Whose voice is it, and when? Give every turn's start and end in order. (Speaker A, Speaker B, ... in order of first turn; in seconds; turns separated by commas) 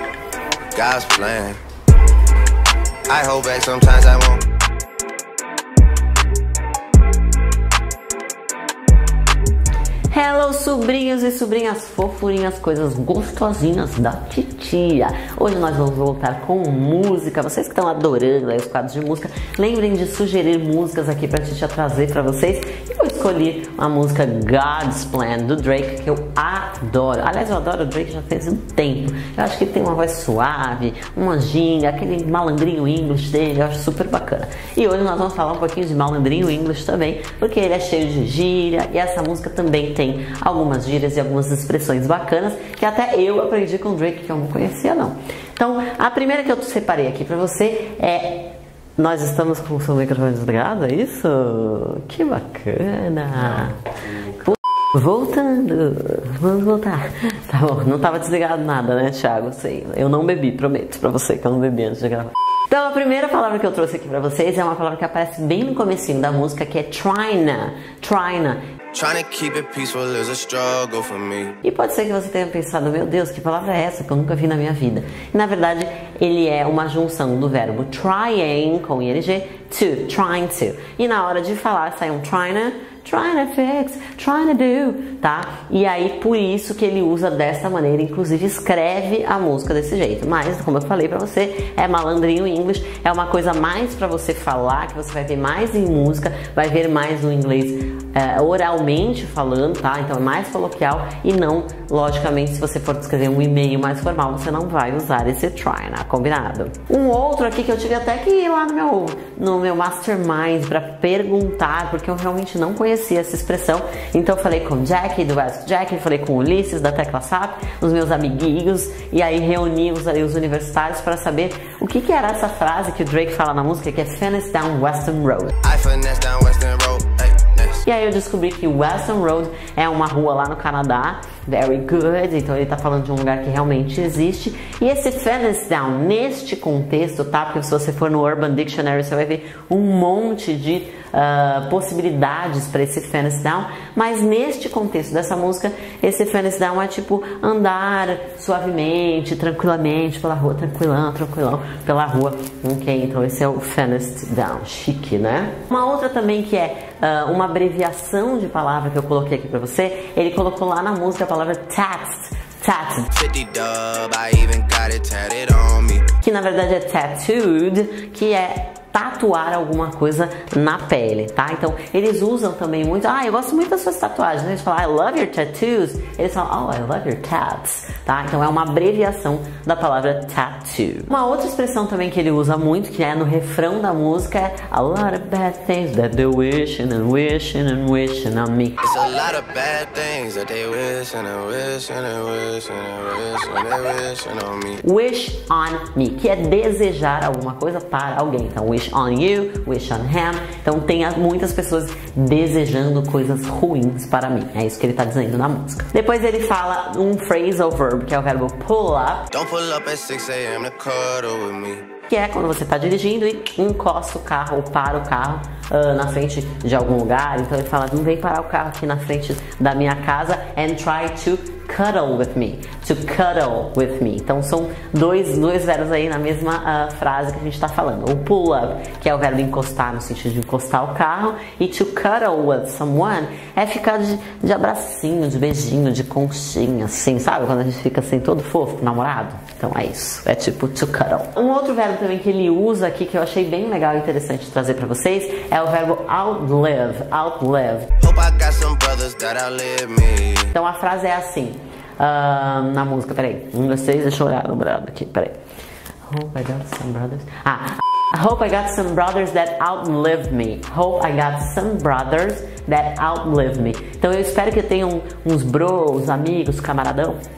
Speaker A: 0.7-1.6, Speaker A: 3.1-4.5, Speaker B: 10.1-68.6, Speaker A: 68.9-71.5, Speaker B: 71.6-125.5, Speaker A: 125.6-127.8, Speaker B: 127.8-163.1, Speaker A: 163.1-166.1, Speaker B: 166.2-188.8, Speaker A: 188.8-194.8, Speaker B: 194.8-209.3, Speaker A: 209.3-211.8, Speaker B: 212.1-247.9, Speaker A: 248.0-250.5, Speaker B: 250.5-255.4, Speaker B: 256.1-267.2